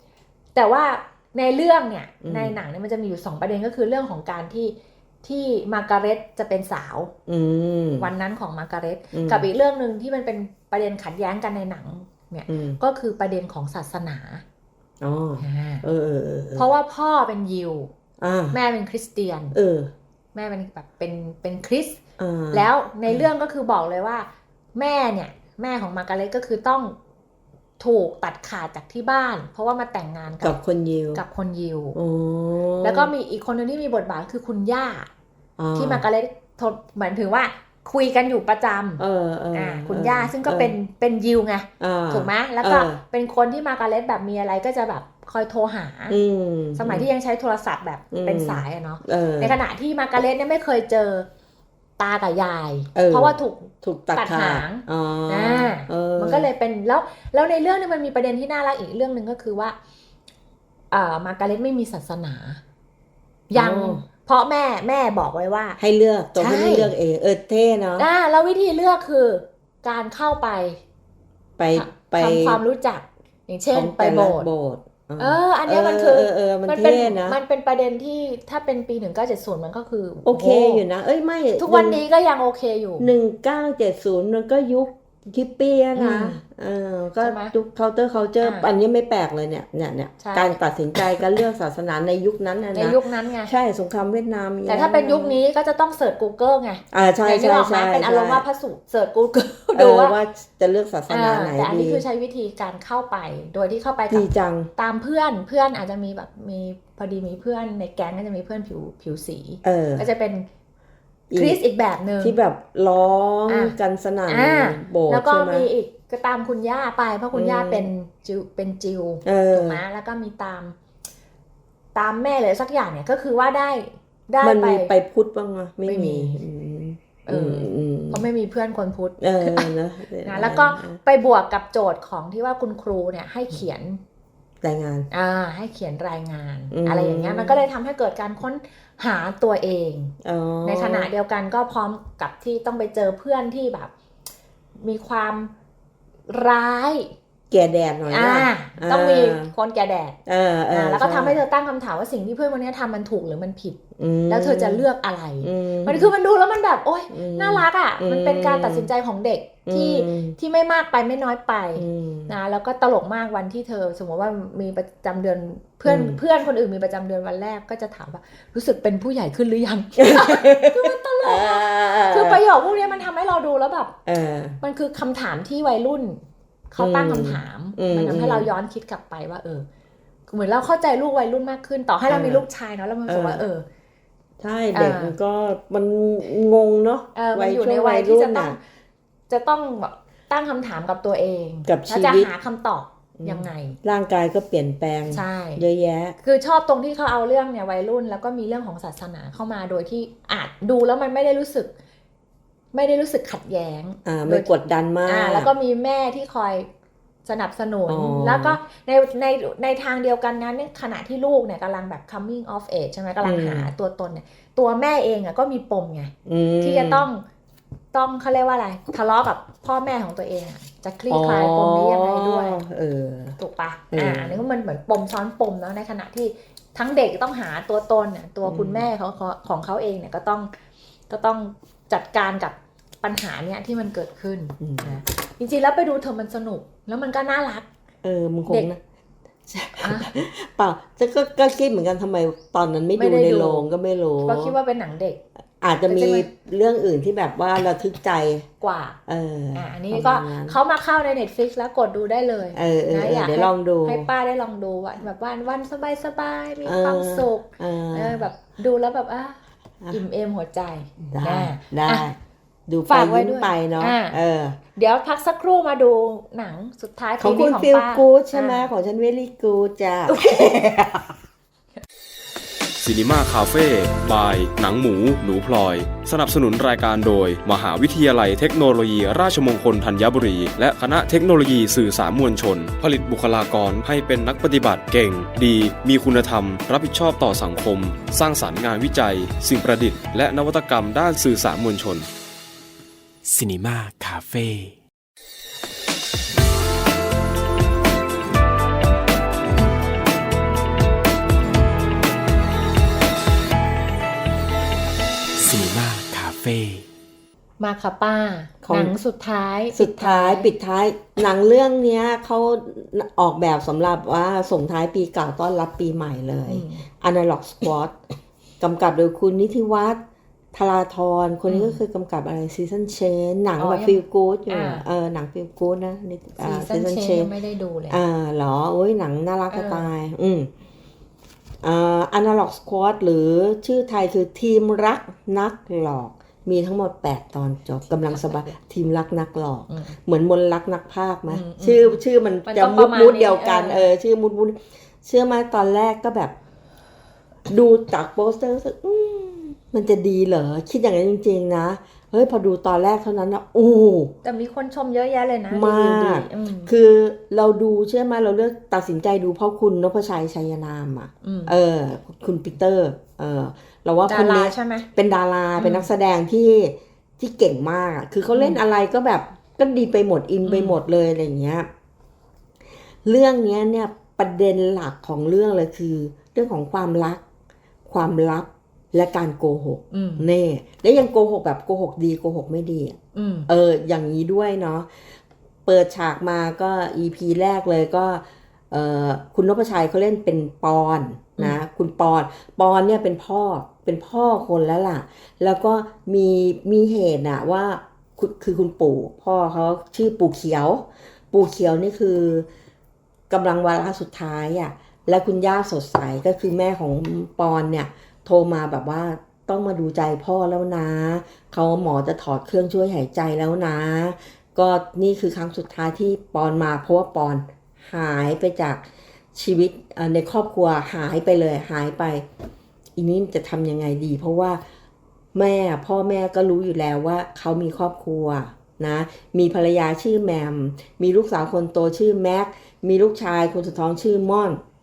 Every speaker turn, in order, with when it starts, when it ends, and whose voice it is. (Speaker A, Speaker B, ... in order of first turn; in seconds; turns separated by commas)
Speaker A: 0.6-7.1, Speaker B: 2.2-2.6, Speaker B: 7.3-8.1, Speaker A: 8.0-14.4, Speaker B: 9.1-9.4, Speaker B: 12.5-12.8, Speaker B: 15.0-16.7, Speaker A: 15.4-15.8, Speaker A: 16.6-17.9, Speaker B: 18.2-18.6, Speaker A: 18.5-19.6, Speaker B: 19.5-19.9, Speaker A: 20.4-22.0, Speaker B: 22.2-23.3, Speaker A: 22.5-26.9, Speaker A: 27.8-30.6, Speaker B: 30.4-31.2, Speaker A: 31.1-32.0, Speaker B: 31.9-33.1, Speaker A: 32.8-35.1, Speaker B: 35.6-36.0, Speaker A: 35.8-39.0, Speaker B: 39.0-40.8, Speaker A: 39.5-46.2, Speaker B: 41.8-43.0, Speaker B: 46.1-47.1, Speaker A: 46.8-51.3, Speaker B: 48.1-49.6, Speaker A: 52.0-59.8, Speaker B: 52.9-56.5, Speaker A: 60.9-62.6, Speaker B: 63.5-64.0, Speaker A: 63.5-65.8, Speaker B: 65.8-68.1, Speaker A: 66.4-66.9, Speaker A: 68.0-70.8, Speaker B: 71.6-72.6, Speaker A: 71.8-74.5, Speaker B: 73.7-77.4, Speaker A: 75.2-80.8, Speaker B: 80.2-82.0, Speaker A: 81.6-83.1, Speaker B: 83.0-95.4, Speaker A: 86.0-86.4, Speaker A: 87.2-87.5, Speaker A: 88.4-88.7, Speaker A: 90.2-90.6, Speaker A: 92.7-93.5, Speaker A: 94.7-100.2, Speaker B: 96.9-98.4, Speaker B: 99.8-102.0, Speaker A: 101.1-110.5, Speaker B: 104.1-104.7, Speaker B: 109.6-110.1, Speaker B: 111.3-111.6, Speaker A: 111.3-112.4, Speaker B: 112.2-115.7, Speaker A: 113.5-113.7, Speaker A: 114.3-120.8, Speaker B: 117.3-117.9, Speaker B: 119.2-119.8, Speaker A: 122.0-124.9, Speaker B: 124.4-128.2, Speaker A: 125.9-126.4, Speaker A: 127.3-129.7, Speaker B: 129.2-131.0, Speaker A: 130.2-134.0, Speaker B: 134.6-135.1, Speaker A: 135.1-143.9, Speaker B: 136.7-137.6, Speaker B: 140.2-141.1, Speaker A: 144.8-145.5, Speaker A: 146.3-147.1, Speaker B: 147.5-149.5, Speaker A: 148.1-150.2, Speaker B: 150.3-151.4, Speaker A: 150.7-173.9, Speaker B: 154.0-154.8, Speaker B: 155.4-156.1, Speaker B: 157.1-158.9, Speaker B: 159.7-160.4, Speaker B: 161.8-162.3, Speaker B: 165.9-166.2, Speaker B: 170.0-172.4, Speaker B: 174.1-174.6, Speaker A: 174.6-179.7, Speaker B: 176.8-178.5, Speaker A: 180.3-183.7, Speaker B: 182.1-182.5, Speaker B: 183.1-183.4, Speaker B: 184.4-188.6, Speaker A: 184.7-185.2, Speaker A: 187.2-188.6, Speaker A: 189.3-193.8, Speaker B: 191.7-192.3, Speaker B: 193.2-196.2, Speaker A: 195.1-195.6, Speaker A: 196.2-201.7, Speaker A: 202.7-204.5, Speaker B: 204.1-205.5, Speaker A: 205.1-206.7, Speaker A: 207.3-217.2, Speaker B: 207.9-208.6, Speaker B: 213.2-213.7, Speaker B: 216.3-217.1, Speaker A: 217.9-222.6, Speaker B: 221.1-223.4, Speaker A: 223.4-230.5, Speaker B: 223.9-224.4, Speaker B: 228.4-228.9, Speaker A: 231.1-237.7, Speaker B: 234.6-235.0, Speaker B: 238.0-238.8, Speaker B: 239.5-244.6, Speaker A: 239.8-240.1, Speaker A: 243.0-245.2, Speaker B: 245.6-248.5, Speaker A: 245.9-246.3, Speaker A: 248.6-249.0, Speaker B: 249.1-250.6, Speaker A: 249.6-259.4, Speaker B: 252.5-254.1, Speaker B: 256.6-258.3, Speaker A: 259.9-262.1, Speaker B: 261.0-262.2, Speaker B: 262.7-264.6, Speaker A: 262.9-264.2, Speaker A: 264.8-268.7, Speaker B: 267.2-271.1, Speaker A: 270.1-270.4, Speaker C: 272.8-292.1, Speaker D: 293.2-294.8, Speaker D: 305.4-306.9, Speaker A: 307.6-310.5, Speaker B: 308.6-308.9, Speaker B: 309.7-318.0, Speaker A: 316.5-316.9, Speaker B: 318.6-320.0, Speaker B: 320.5-327.3, Speaker A: 321.5-321.8, Speaker A: 323.6-324.9, Speaker A: 326.4-328.0, Speaker B: 327.9-330.5, Speaker A: 329.5-329.9, Speaker B: 331.6-346.4, Speaker A: 338.1-338.5, Speaker A: 339.7-339.9, Speaker A: 341.3-343.9, Speaker B: 347.5-354.1, Speaker A: 354.2-356.7, Speaker B: 355.5-371.7, Speaker A: 361.2-361.5, Speaker A: 364.1-364.9, Speaker A: 365.6-365.9, Speaker A: 368.3-368.6, Speaker A: 370.5-370.8, Speaker B: 373.1-377.2, Speaker B: 377.9-384.9, Speaker A: 379.9-380.3, Speaker A: 383.1-383.5, Speaker B: 385.7-402.5, Speaker B: 403.3-422.2, Speaker B: 423.0-424.6, Speaker B: 425.3-434.6